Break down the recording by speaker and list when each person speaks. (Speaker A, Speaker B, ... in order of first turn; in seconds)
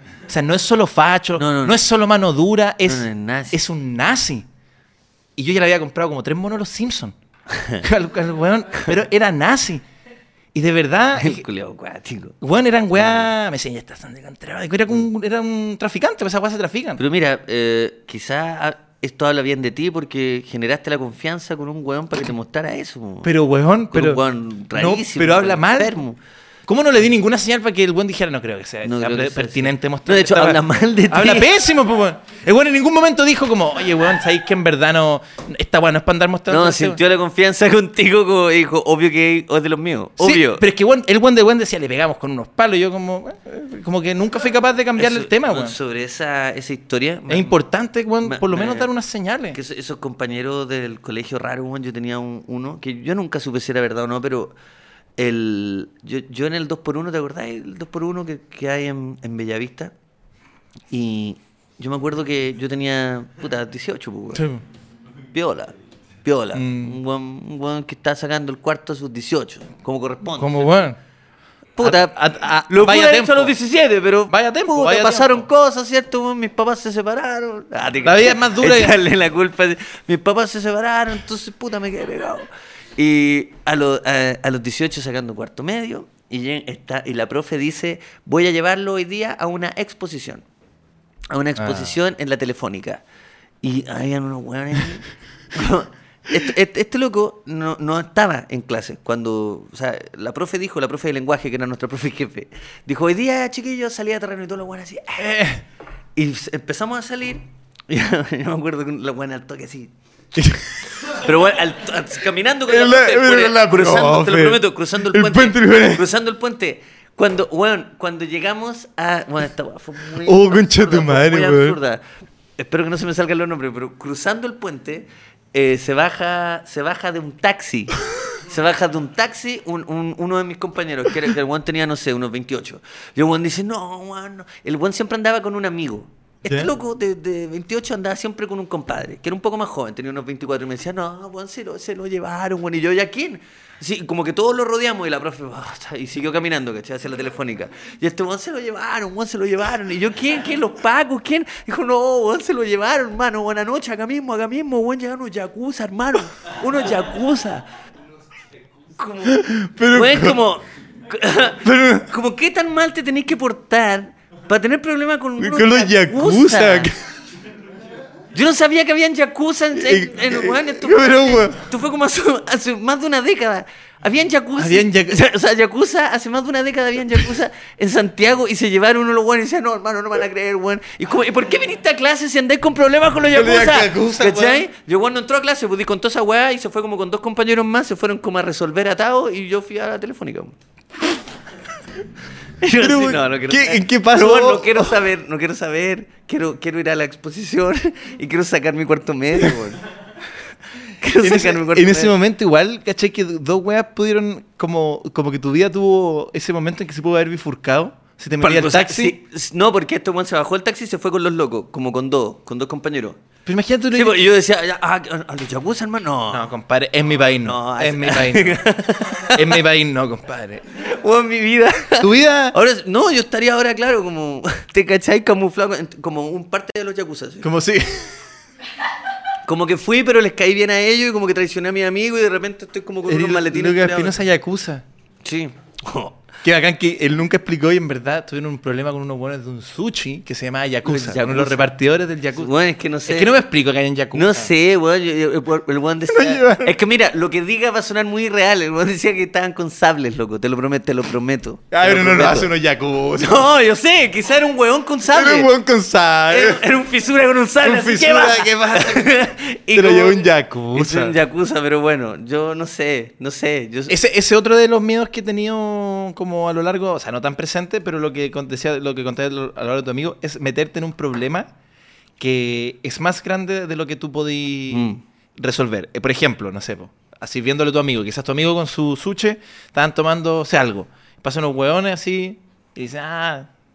Speaker A: 0.3-4.5, 5.4-7.1, 7.8-9.8, 10.5-11.4, 12.4-17.0, 23.2-26.0, 26.7-37.0, 40.2-45.8, 47.3-49.6, 64.3-64.6, 66.5-67.0, 70.4-71.0, 71.8-73.5, 74.3-75.5, 78.0-79.0, 91.6-91.9, 105.2-105.6, 110.3-110.9, 112.7-116.0, 120.2-121.8, 159.2-160.4, 161.6-162.1, 165.4-167.0, 169.7-171.6, 174.6-175.2, 183.3-184.6, 192.8-195.0, 201.2-209.2, 213.4-214.2, 216.3-218.7, 219.3-220.6, 222.0-222.6, 227.4-228.2, 233.1-234.8, 236.4-242.5, 243.1-244.5, 246.1-246.8, 251.7-253.5, 255.1-256.6, 257.6-261.1, 263.9-271.5, 272.2-283.5
Speaker B: 1.4-1.8, 2.9-3.6, 7.5-7.8, 11.2-12.4, 12.9-13.3, 17.0-23.3, 23.9-26.2, 28.8-31.5, 36.5-40.6, 45.0-47.6, 48.2-48.9, 49.5-54.5, 55.2-59.9, 60.9-64.5, 65.3-70.7, 71.8-72.2, 72.7-90.4, 91.3-93.0, 93.6-105.4, 106.2-109.9, 111.0-122.0, 122.6-157.7, 158.9-166.9, 168.3-190.6, 192.6-199.8, 201.0-202.1, 208.4-213.2, 213.9-216.5, 217.4-219.6, 220.7-227.5, 229.4-234.1, 235.2-236.2, 240.8-241.7, 242.3-243.4, 244.1-252.5, 253.2-255.5, 256.3-263.9, 274.7-275.0